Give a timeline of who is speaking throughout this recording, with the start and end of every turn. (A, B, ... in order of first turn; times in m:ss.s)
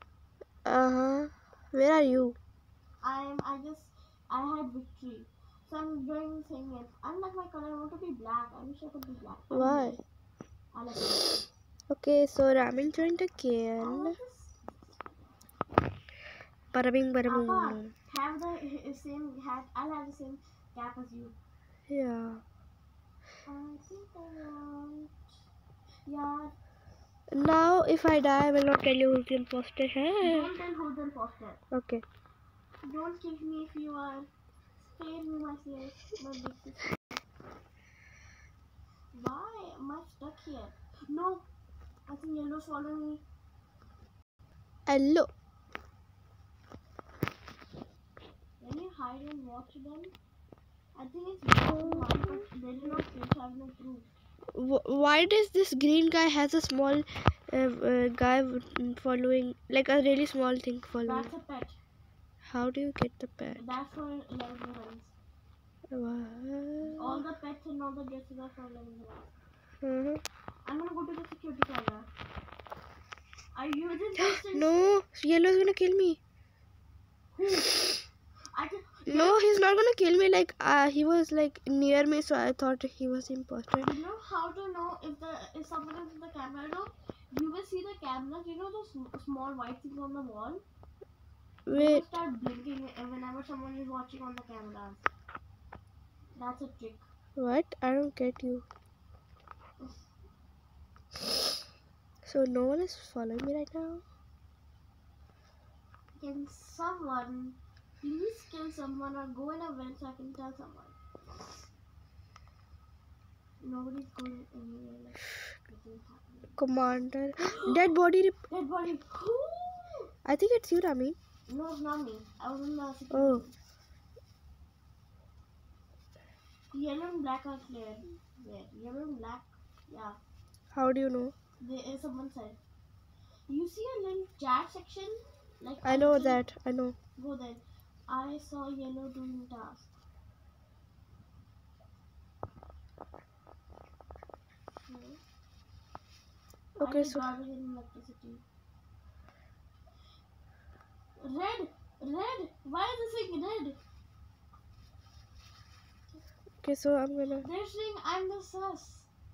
0:00.6-0:02.4 A
0:03.0-0:10.0 B
0:09.5-0:10.0 A
0:10.7-0:11.4 B
0:11.9-0:14.2 A
0:13.8-0:14.7 B
0:16.7-0:17.9 A
0:17.3-0:21.4 B
0:21.9-0:22.4 A
0:23.5-0:25.2 B
0:26.1-0:26.5 B
0:27.3-0:30.5 A
0:30.2-0:31.6 B
0:31.7-0:32.0 A
0:32.8-0:34.3 B
0:34.8-0:37.2 B
0:39.1-0:41.5 B
0:42.1-0:43.2 B
0:44.9-0:45.3 A
0:48.6-0:50.2 B
0:50.9-0:54.1 B
0:51.7-0:52.4 A
0:54.5-1:01.3 A
1:01.0-1:01.8 B
1:02.4-1:03.6 A
1:03.6-1:05.2 B
1:05.9-1:07.2 A
1:06.9-1:09.3 B
1:09.8-1:10.2 A
1:10.6-1:12.1 B
1:13.5-1:14.9 B
1:14.2-1:16.2 A
1:17.3-1:18.0 B
1:18.5-1:19.4 B
1:19.1-1:23.9 A
1:23.8-1:30.6 B
1:31.7-1:32.0 A
1:31.7-1:35.1 B
1:36.4-1:37.1 B
1:37.4-1:38.7 A
1:42.2-1:44.0 A
1:46.2-1:51.0 B
1:53.6-1:56.6 B
1:56.6-1:58.4 A
1:58.5-2:00.1 B
2:00.2-2:01.2 A
2:01.5-2:03.5 B
2:03.1-2:03.4 A
2:06.7-2:10.2 B
2:10.7-2:11.3 A
2:11.6-2:12.6 B
2:13.5-2:16.4 B
2:15.8-2:17.0 A
2:17.1-2:19.9 B
2:24.9-2:25.2 B
2:26.8-2:27.2 A
2:26.8-2:28.4 B
2:31.2-2:33.8 B
2:36.6-2:37.4 A
2:37.4-2:39.1 B